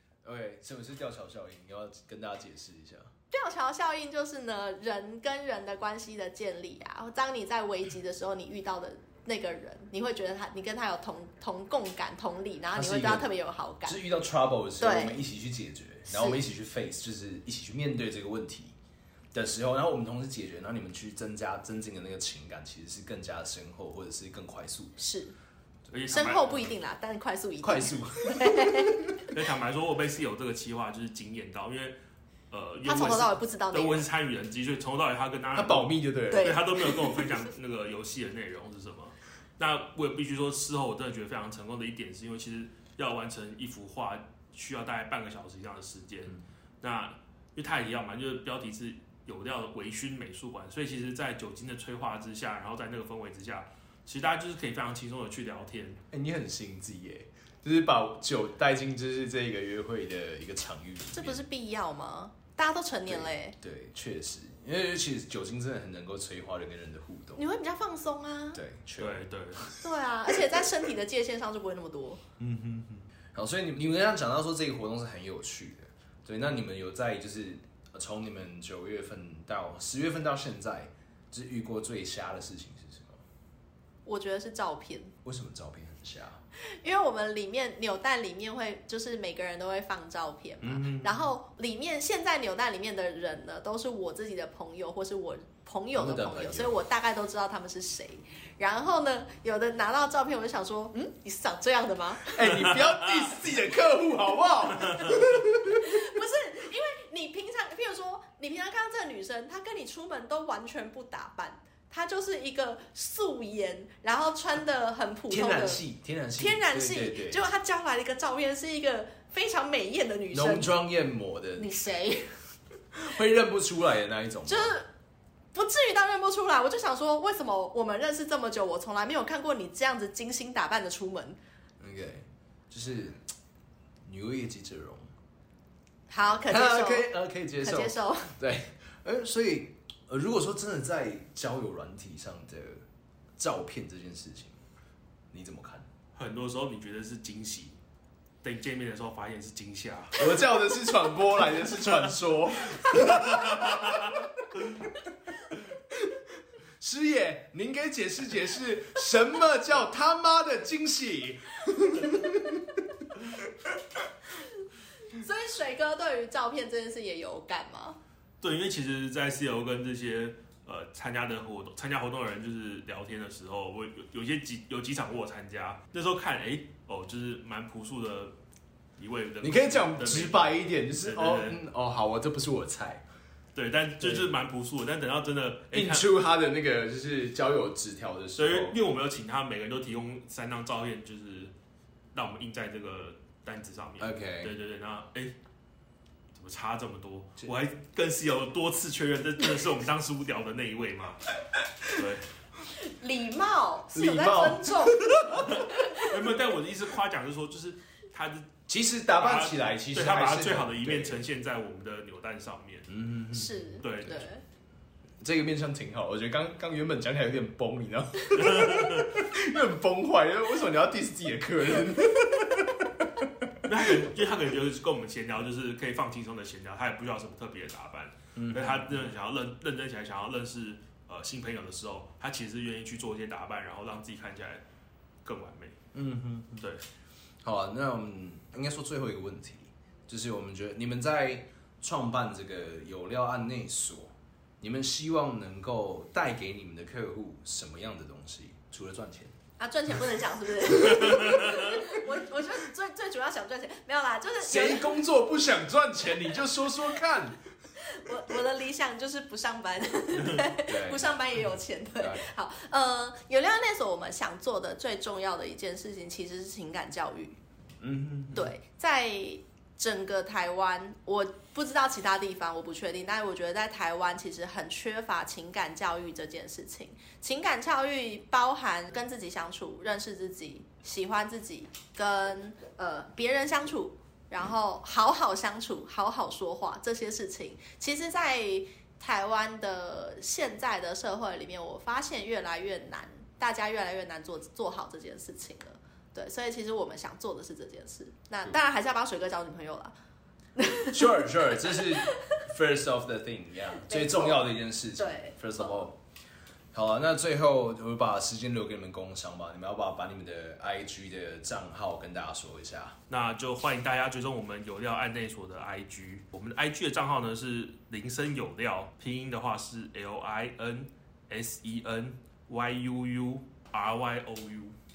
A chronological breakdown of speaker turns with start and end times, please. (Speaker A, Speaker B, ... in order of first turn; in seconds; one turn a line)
Speaker A: 0.2-3.1
Speaker B: 3.3-14.0
Speaker A: 12.7-13.3
Speaker A: 13.8-18.8
Speaker B: 14.8-15.2
Speaker B: 16.1-16.4
Speaker A: 19.3-25.0
Speaker B: 25.0-25.4
Speaker C: 25.9-26.6
Speaker B: 26.1-29.0
Speaker A: 27.6-29.2
Speaker C: 29.2-32.0
Speaker C: 32.5-56.0
Speaker B: 32.9-34.1
Speaker A: 35.5-36.7
Speaker B: 36.3-37.2
Speaker A: 56.1-61.4
Speaker B: 61.1-63.5
Speaker A: 63.1-67.4
Speaker B: 67.4-68.6
Speaker A: 68.5-69.9
Speaker C: 69.0-69.6
Speaker B: 69.8-72.2
Speaker A: 72.4-83.2
Speaker B: 84.0-85.1
Speaker A: 85.2-86.4
Speaker B: 86.7-102.5
Speaker A: 90.6-91.2
Speaker A: 95.9-96.8
Speaker A: 102.3-106.0
Speaker C: 104.8-105.1
Speaker B: 105.7-115.8
Speaker A: 115.3-117.4
Speaker B: 116.4-120.7
Speaker A: 120.3-121.7
Speaker B: 121.6-122.3
Speaker A: 122.9-124.8
Speaker B: 124.5-124.9
Speaker B: 125.5-131.4
Speaker A: 131.8-133.2
Speaker A: 134.1-135.1
Speaker B: 136.1-138.3
Speaker A: 136.4-142.8
Speaker A: 143.4-144.6
Speaker A: 145.3-145.9
Speaker C: 146.2-147.8
Speaker C: 148.4-150.3
Speaker A: 150.1-154.2
Speaker C: 152.8-154.2
Speaker A: 155.9-156.2
Speaker A: 156.8-163.7
Speaker B: 165.1-168.0
Speaker C: 168.4-178.3
Speaker C: 179.0-180.4
Speaker A: 179.4-183.1
Speaker C: 181.0-181.6
Speaker C: 183.6-186.1
Speaker A: 184.0-184.3
Speaker A: 185.7-188.8
Speaker C: 188.4-191.5
Speaker C: 192.1-195.3
Speaker A: 194.0-194.5
Speaker C: 196.3-201.3
Speaker A: 201.6-202.0
Speaker C: 201.9-202.3
Speaker B: 202.8-206.1
Speaker A: 203.9-205.9
Speaker C: 205.5-208.6
Speaker A: 208.7-211.3
Speaker C: 209.2-212.9
Speaker A: 212.9-213.7
Speaker B: 213.3-214.4
Speaker C: 213.8-214.2
Speaker A: 215.2-224.1
Speaker C: 218.3-219.2
Speaker C: 223.7-234.6
Speaker A: 228.3-229.0
Speaker C: 235.2-235.8
Speaker A: 235.9-236.7
Speaker A: 237.4-249.3
Speaker B: 249.6-255.0
Speaker A: 250.7-251.6
Speaker A: 254.4-257.4
Speaker B: 257.8-267.4
Speaker A: 260.6-261.1
Speaker A: 262.0-262.3
Speaker A: 267.8-268.5
Speaker B: 268.3-299.9
Speaker B: 300.6-302.2
Speaker A: 300.9-306.0
Speaker B: 303.8-305.9
Speaker A: 306.7-313.0
Speaker C: 313.1-324.7